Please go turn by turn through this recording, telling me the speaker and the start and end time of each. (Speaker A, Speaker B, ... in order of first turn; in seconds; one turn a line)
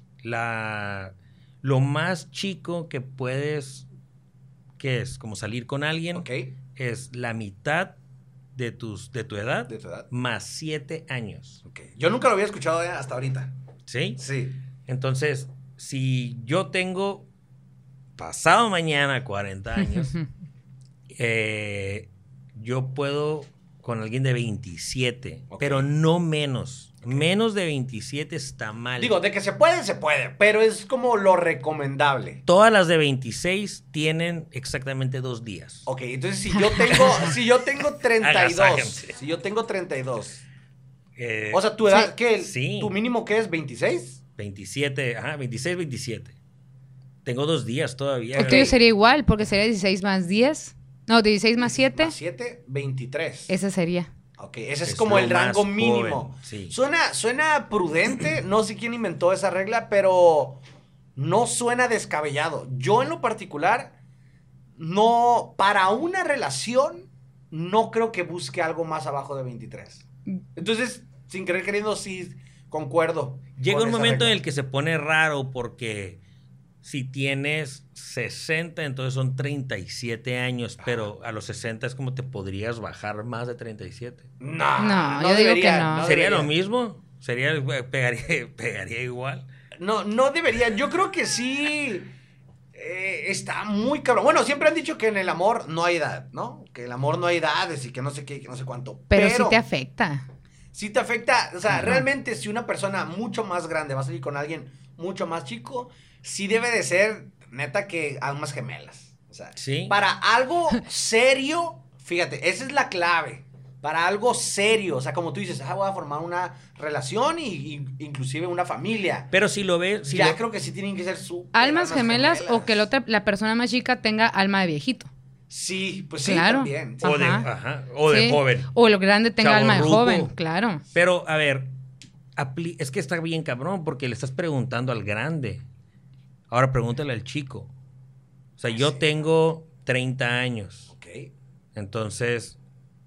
Speaker A: 0.2-3.9
Speaker A: 4.8-8.0
Speaker B: 6.1-6.5
Speaker A: 8.5-11.6
Speaker B: 9.7-10.1
Speaker B: 11.7-13.5
Speaker A: 13.9-14.2
Speaker B: 14.2-14.6
Speaker A: 14.9-17.3
Speaker A: 18.2-20.1
Speaker A: 21.1-29.1
Speaker B: 25.5-25.9
Speaker B: 29.0-32.4
Speaker A: 32.5-35.9
Speaker B: 35.9-40.5
Speaker C: 36.5-37.3
Speaker A: 38.2-39.1
Speaker A: 41.1-41.6
Speaker B: 41.5-44.2
Speaker A: 42.4-42.9
Speaker A: 44.4-46.3
Speaker A: 47.2-48.7
Speaker B: 48.4-48.7
Speaker C: 48.4-52.1
Speaker B: 51.6-53.5
Speaker C: 53.5-54.1
Speaker B: 54.4-60.6
Speaker A: 54.9-56.7
Speaker B: 61.1-63.9
Speaker B: 64.8-70.0
Speaker B: 70.5-74.4
Speaker A: 73.6-76.2
Speaker A: 76.8-84.3
Speaker B: 80.8-81.1
Speaker B: 84.4-86.5
Speaker C: 84.8-86.2
Speaker A: 86.0-89.5
Speaker B: 89.8-92.1
Speaker B: 92.7-99.6
Speaker C: 99.1-100.2
Speaker B: 100.7-119.3
Speaker C: 101.8-102.0
Speaker A: 109.6-110.0
Speaker A: 119.3-120.4
Speaker B: 120.0-122.8
Speaker C: 121.5-125.1
Speaker B: 125.5-127.1
Speaker C: 126.2-127.5
Speaker A: 127.0-128.7
Speaker C: 128.1-130.8
Speaker A: 129.4-130.3
Speaker A: 130.9-131.7
Speaker A: 132.3-135.6
Speaker A: 136.5-137.7
Speaker A: 138.6-140.9
Speaker B: 138.7-139.2
Speaker B: 140.9-141.3
Speaker A: 141.7-142.6